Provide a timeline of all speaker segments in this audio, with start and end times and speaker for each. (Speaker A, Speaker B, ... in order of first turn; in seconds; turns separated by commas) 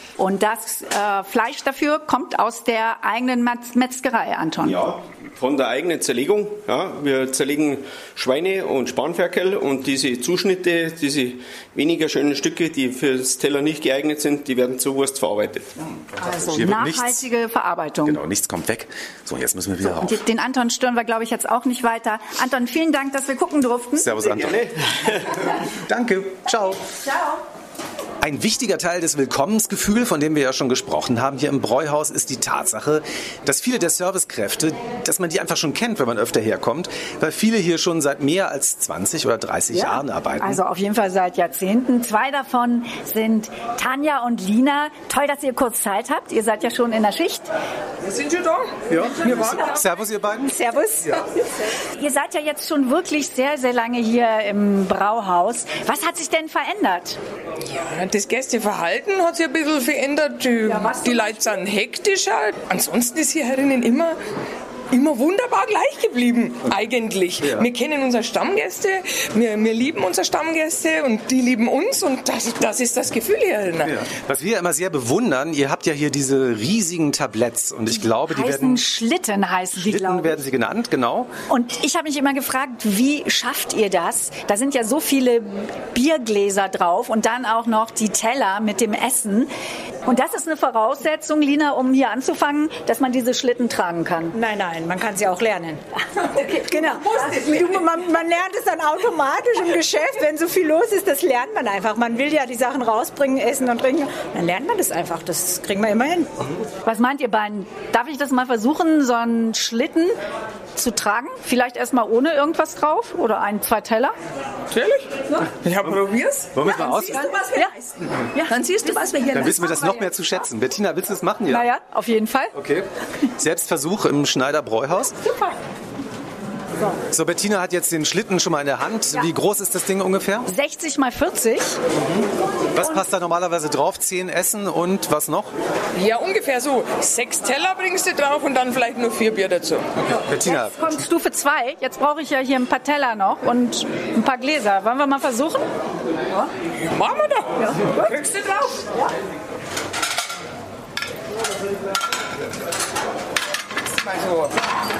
Speaker A: 0.2-4.8, Speaker B: 4.6-15.7, Speaker C: 16.1-17.2, Speaker A: 16.2-18.2, Speaker C: 18.0-20.2, Speaker A: 19.9-24.3, Speaker C: 23.9-24.6, Speaker B: 24.4-25.2, Speaker C: 25.9-26.8, Speaker C: 28.2-40.6, Speaker A: 39.7-47.5, Speaker D: 48.0-49.9, Speaker C: 48.9-50.5, Speaker E: 50.5-51.0, Speaker A: 51.9-57.2, Speaker D: 57.6-64.2, Speaker A: 60.6-61.5, Speaker D: 64.9-74.0, Speaker C: 67.4-67.7, Speaker C: 73.8-78.8, Speaker A: 78.0-80.4, Speaker C: 79.7-81.3, Speaker A: 81.5-89.5, Speaker A: 90.0-94.3, Speaker E: 94.3-95.8, Speaker A: 96.4-97.0, Speaker E: 96.6-106.3, Speaker A: 106.8-110.2, Speaker A: 110.8-114.1, Speaker D: 114.7-116.9, Speaker C: 116.5-117.3, Speaker A: 116.8-117.7, Speaker A: 118.4-120.1, Speaker D: 118.5-119.1, Speaker C: 119.3-121.7, Speaker A: 121.5-122.5, Speaker C: 122.5-125.2, Speaker C: 127.1-130.5, Speaker A: 130.5-131.8, Speaker C: 131.9-135.5, Speaker D: 135.9-139.9, Speaker C: 140.1-140.8, Speaker A: 140.4-145.7, Speaker D: 146.9-148.9, Speaker A: 147.6-148.2, Speaker D: 153.9-154.6